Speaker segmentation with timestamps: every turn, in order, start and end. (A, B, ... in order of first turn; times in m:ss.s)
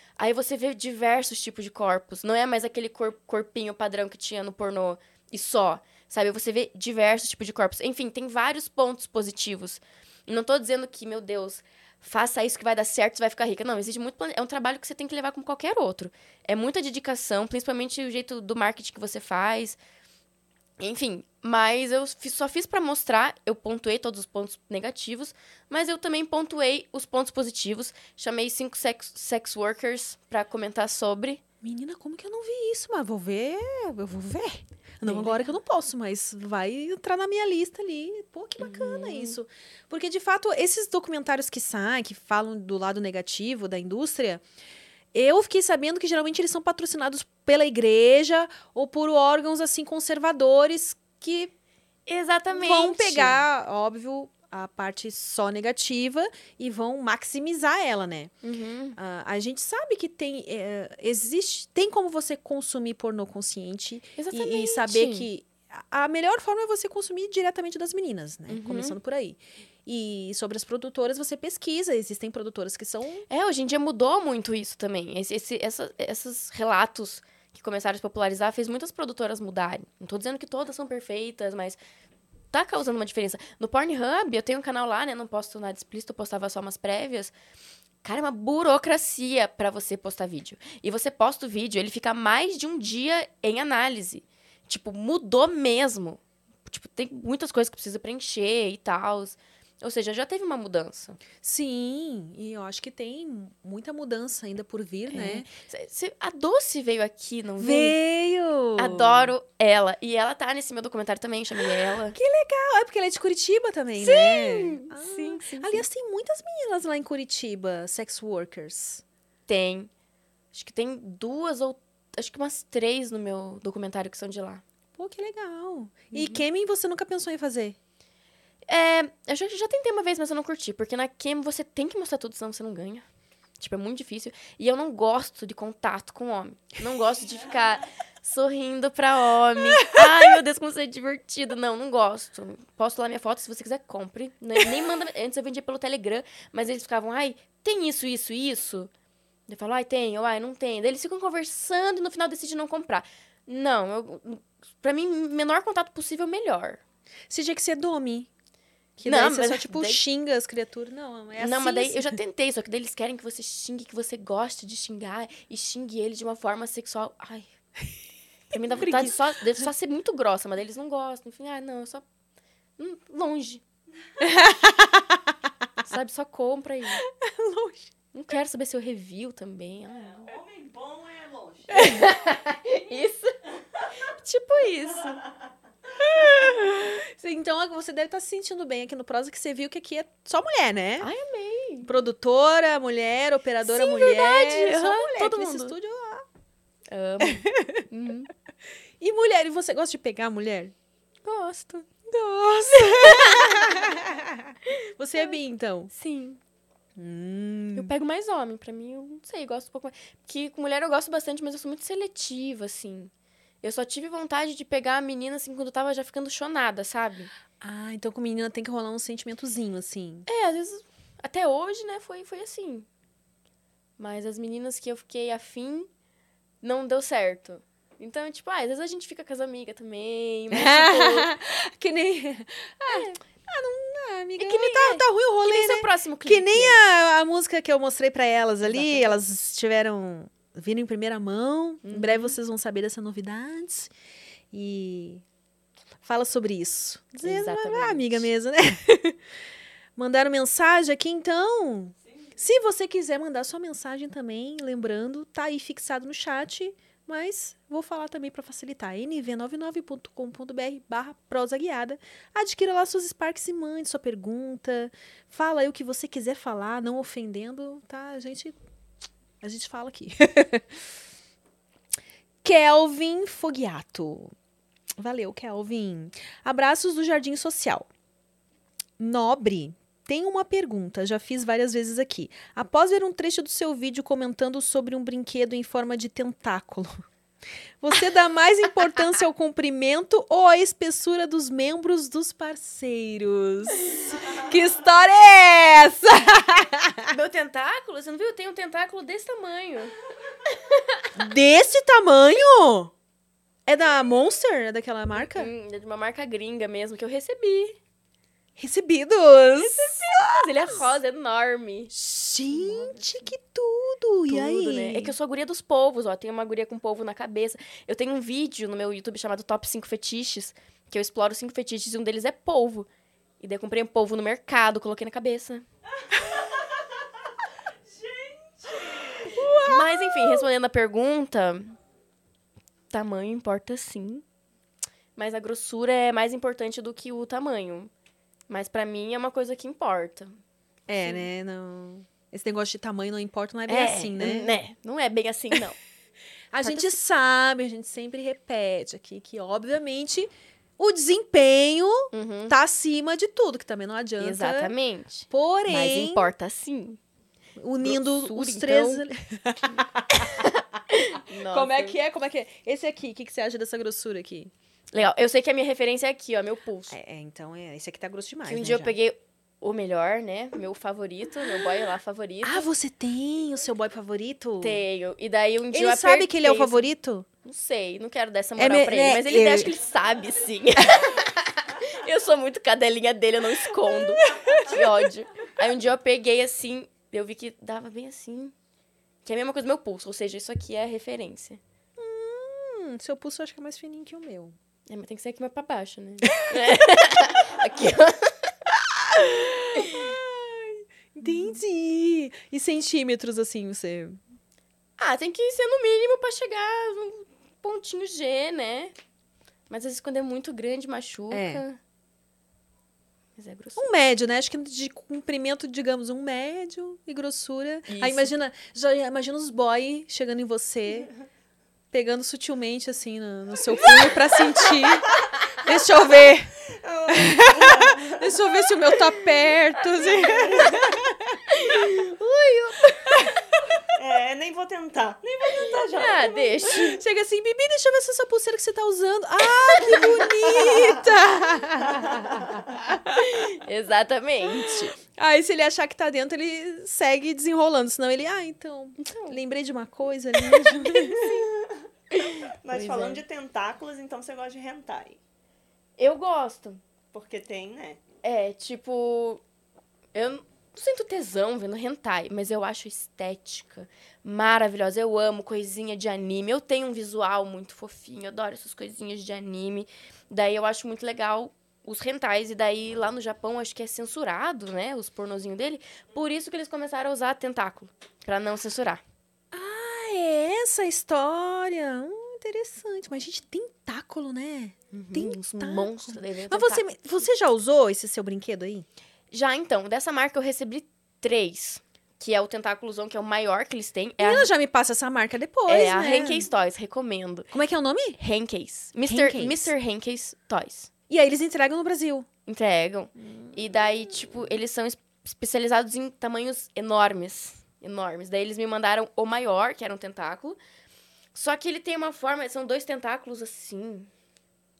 0:00.2-0:19.8 A
0:20.8-0:31.4 A
0:31.6-0:44.4 B
0:35.0-0:35.5 A
0:38.6-0:39.4 A
0:45.1-0:51.5 B
0:52.1-0:53.4 A
0:52.5-0:58.3 B
0:58.4-0:59.0 A
0:59.0-1:13.2 B
1:04.2-1:05.3 A
1:08.5-1:09.0 A
1:13.3-1:21.8 A
1:22.5-1:27.3 A
1:28.0-1:41.2 A
1:41.4-1:45.5 B
1:45.1-1:48.0 A
1:47.6-1:49.3 B
1:48.8-1:52.2 A
1:52.1-1:59.0 B
1:54.0-1:55.8 A
1:59.5-1:59.9 A
2:00.5-2:04.6 A
2:05.0-2:07.8 B
2:06.1-2:06.4 A
2:08.7-2:13.0 A
2:13.6-2:28.9 A
2:19.8-2:20.2 B
2:29.5-2:36.8 A
2:37.3-2:38.3 B
2:39.0-2:42.2 B
2:39.0-2:40.0 A
2:41.4-2:47.5 A
2:48.5-2:52.0 A
2:48.5-2:49.6 B
2:52.8-2:53.6 A
2:54.2-2:55.2 B
2:55.8-2:57.0 A
2:57.0-2:57.9 B
2:58.1-3:00.2 A
2:59.9-3:02.1 C
3:01.7-3:03.4 A
3:04.0-3:05.2 A
3:06.2-3:11.1 B
3:06.5-3:06.8 A
3:11.0-3:11.9 A
3:11.8-3:16.2 B
3:13.6-3:15.8 A
3:16.9-3:18.3 A
3:17.2-3:17.8 B
3:19.0-3:20.7 B
3:21.2-3:21.9 A
3:22.0-3:25.9 B
3:22.8-3:23.9 A
3:25.9-3:26.4 A
3:27.0-3:27.9 B
3:27.7-3:37.3 A
3:37.6-3:40.2 B
3:40.2-3:42.9 A
3:44.0-3:45.9 A
3:46.6-3:51.3 A
3:50.5-4:03.9 B
3:52.9-3:53.2 A
3:54.4-3:56.8 A
3:58.6-3:59.2 A
4:01.8-4:02.3 A
4:04.5-4:05.2 B
4:06.0-4:09.2 B
4:07.2-4:08.3 A
4:10.0-4:28.6 B
4:29.4-4:30.8 B
4:32.4-4:34.3 B
4:35.0-4:37.9 B
4:39.0-4:47.0 B
4:47.8-4:57.1 B
4:57.1-4:59.9 A
5:00.5-5:01.0 A
5:01.2-5:02.9 B
5:03.6-5:05.5 B
5:05.2-5:07.8 A
5:08.6-5:10.9 B
5:09.6-5:11.9 A
5:11.9-5:15.1 B
5:12.5-5:13.3 A
5:14.3-5:22.9 A
5:23.4-5:25.6 A
5:27.9-5:29.4 C
5:29.3-5:30.5 B
5:29.6-5:31.7 A
5:32.9-5:34.2 A
5:35.2-5:37.9 A
5:38.5-5:40.4 A
5:40.9-5:44.6 B
5:41.0-5:41.3 A
5:43.7-5:45.8 A
5:46.5-5:54.7 B
5:46.6-5:47.0 A
5:52.1-5:52.6 A
5:54.2-5:57.0 A
5:55.3-5:56.3 B
5:57.6-6:00.5 B
5:57.8-5:59.1 A
6:00.1-6:02.0 A
6:01.4-6:04.5 B
6:04.9-6:07.0 A
6:06.9-6:08.9 B
6:08.5-6:12.6 A
6:12.4-6:14.8 B
6:14.6-6:16.9 A
6:15.7-6:17.2 B
6:17.4-6:28.5 A
6:18.6-6:19.7 B
6:23.8-6:24.9 B
6:29.2-6:31.6 A
6:32.0-6:34.6 B
6:34.9-6:38.5 A
6:38.9-6:44.2 B
6:39.8-6:40.1 A
6:45.0-6:48.9 A
6:49.7-6:51.8 A
6:51.3-6:51.6 B
6:53.4-6:53.9 A
6:53.8-7:01.1 B
6:57.9-6:58.3 A
7:01.9-7:06.5 B
7:06.7-7:08.4 C
7:07.1-7:11.4 B
7:10.0-7:10.9 C
7:11.5-7:13.2 A
7:13.0-7:13.7 B
7:13.9-7:16.8 C
7:15.9-7:17.0 A
7:16.7-7:23.5 B
7:19.7-7:20.2 A
7:23.4-7:24.9 A
7:24.6-7:31.4 B
7:29.0-7:29.4 A
7:30.8-7:31.4 A
7:32.1-7:33.2 A
7:32.6-7:35.2 C
7:36.0-7:36.8 A
7:37.1-7:38.0 C
7:38.2-7:39.4 A
7:40.1-7:59.0 A
7:59.5-8:08.9 B
8:04.9-8:06.9 A
8:09.3-8:14.5 A
8:14.2-8:16.5 B
8:15.7-8:17.5 A
8:17.5-8:18.2 B
8:18.2-8:20.9 A
8:19.1-8:19.7 B
8:21.1-8:22.3 B
8:22.4-8:30.6 A
8:23.2-8:24.3 B
8:31.3-8:34.1 A